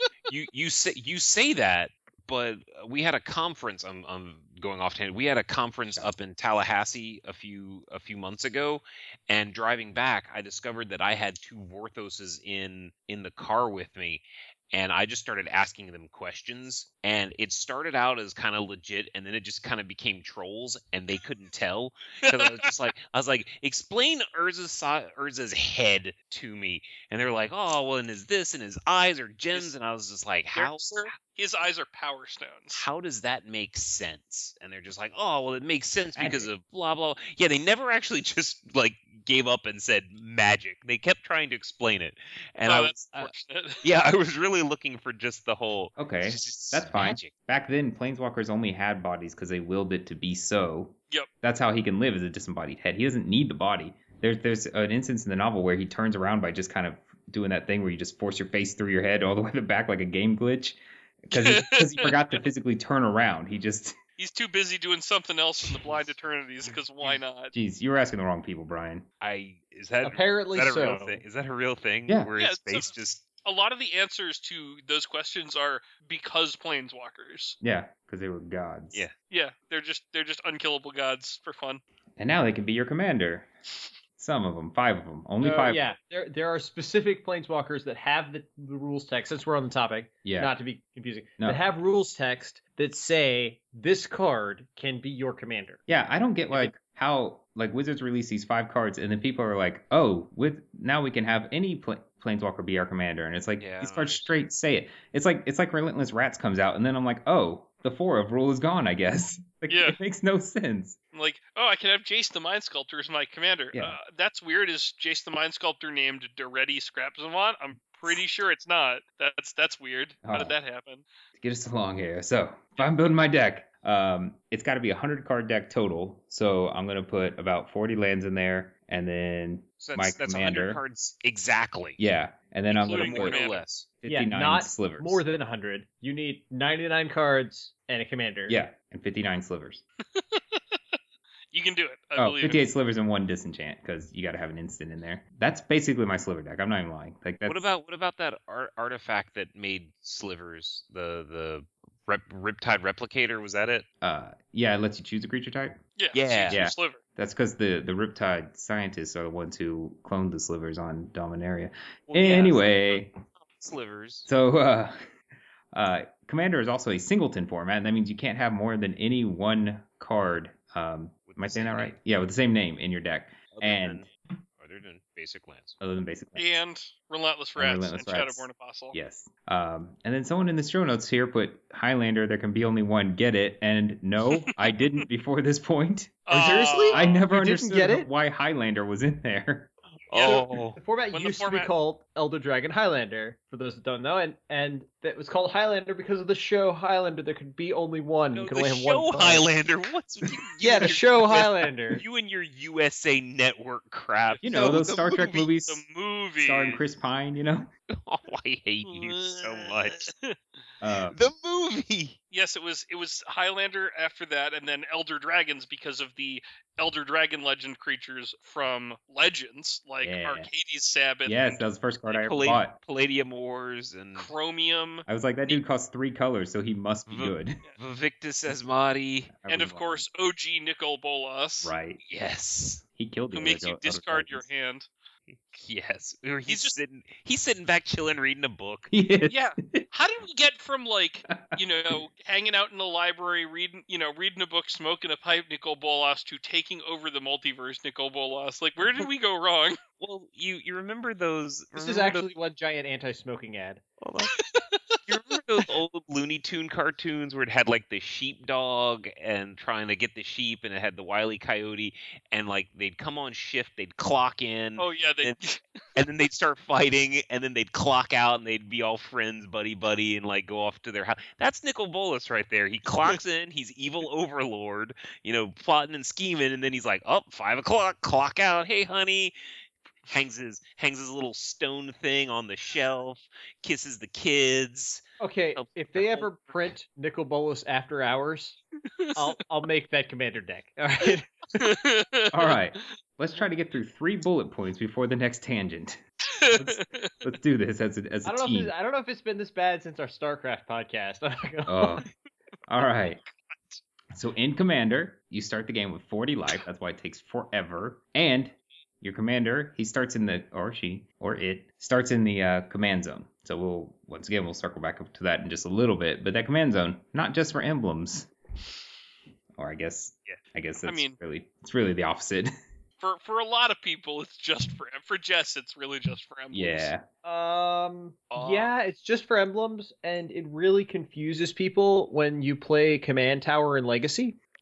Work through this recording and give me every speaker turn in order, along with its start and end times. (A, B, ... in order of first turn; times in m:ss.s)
0:00.3-0:31.1 A
0:22.2-0:22.7 B
0:30.5-0:32.9 B
0:32.7-0:47.3 A
0:36.2-0:36.5 C
0:42.6-0:43.8 B
0:46.0-1:04.0 C
1:01.3-1:02.4 B
1:04.2-1:07.5 B
1:07.5-1:09.0 C
1:09.2-1:13.2 A
1:10.0-1:11.2 D
1:12.4-1:12.9 B
1:13.4-1:17.6 B
1:17.6-1:19.0 C
1:19.3-1:21.8 B
1:22.2-1:23.5 C
1:24.2-1:25.8 C
1:25.4-1:35.8 D
1:30.2-1:30.5 C
1:35.9-1:51.0 C
1:43.6-1:44.3 A
1:49.7-1:50.0 B
1:51.1-2:01.0 B
2:00.2-2:00.6 C
2:01.4-2:10.8 C
2:09.8-2:12.0 A
2:12.0-2:13.4 C
2:12.7-2:13.9 A
2:12.7-2:13.6 B
2:14.0-2:15.2 C
2:14.1-2:18.6 D
2:18.5-2:19.8 C
2:20.1-2:21.0 B
2:21.5-2:22.6 B
2:22.2-2:27.7 C
2:27.5-2:33.9 A
2:34.0-2:35.8 C
2:36.0-2:37.0 B
2:36.1-2:36.6 A
2:36.5-2:43.1 C
2:42.1-2:44.3 A
2:44.2-2:45.0 C
2:45.7-2:54.1 C
2:51.3-2:51.9 A
2:53.5-2:54.1 A
2:54.6-2:55.8 A
2:55.8-2:56.6 C
2:56.4-2:58.9 B
2:57.6-3:09.7 C
3:06.3-3:07.2 B
3:06.4-3:08.1 D
3:10.1-3:10.8 A
3:10.1-3:10.4 B
3:10.3-3:19.5 D
3:11.1-3:11.7 B
3:18.3-3:25.5 A
3:20.6-3:22.0 D
3:24.3-3:24.8 B
3:24.4-3:25.8 C
3:25.6-3:26.8 B
3:26.4-3:27.7 C
3:27.9-3:30.1 A
3:28.9-3:30.4 B
3:30.8-3:31.2 C
3:31.1-3:32.2 A
3:32.3-3:41.6 B
3:40.0-3:40.5 C
3:41.2-3:42.8 C
3:42.1-3:44.3 A
3:44.2-3:45.6 B
3:45.1-3:47.6 C
3:47.1-3:49.3 A
3:49.3-3:50.0 C
3:49.5-3:51.7 B
3:51.6-3:52.0 C
3:52.0-3:52.8 A
3:53.0-3:54.5 C
3:53.3-3:54.9 B
3:55.3-3:58.9 A
3:56.5-3:56.7 B
3:58.9-3:59.9 C
3:59.3-4:09.8 B
4:10.0-4:12.3 A
4:11.8-4:13.8 D
4:14.0-4:14.4 A
4:14.3-4:15.0 B
4:15.1-4:25.4 A
4:24.8-4:25.6 B
4:26.0-4:39.3 A
4:40.1-4:46.3 A
4:45.2-4:48.6 D
4:49.0-4:49.2 B
4:49.2-4:51.7 D
4:51.6-4:52.6 B
4:52.3-4:56.0 C
4:56.4-4:57.1 B
4:56.5-4:58.7 C
4:58.2-5:02.0 D
5:01.7-5:02.0 C
5:02.7-5:03.2 C
5:03.5-5:03.8 B
5:04.1-5:18.3 C
5:19.6-5:22.5 C
5:20.8-5:21.2 B
5:23.0-5:26.9 B
5:26.5-5:27.0 C
5:27.2-5:34.4 D
5:28.3-5:28.7 B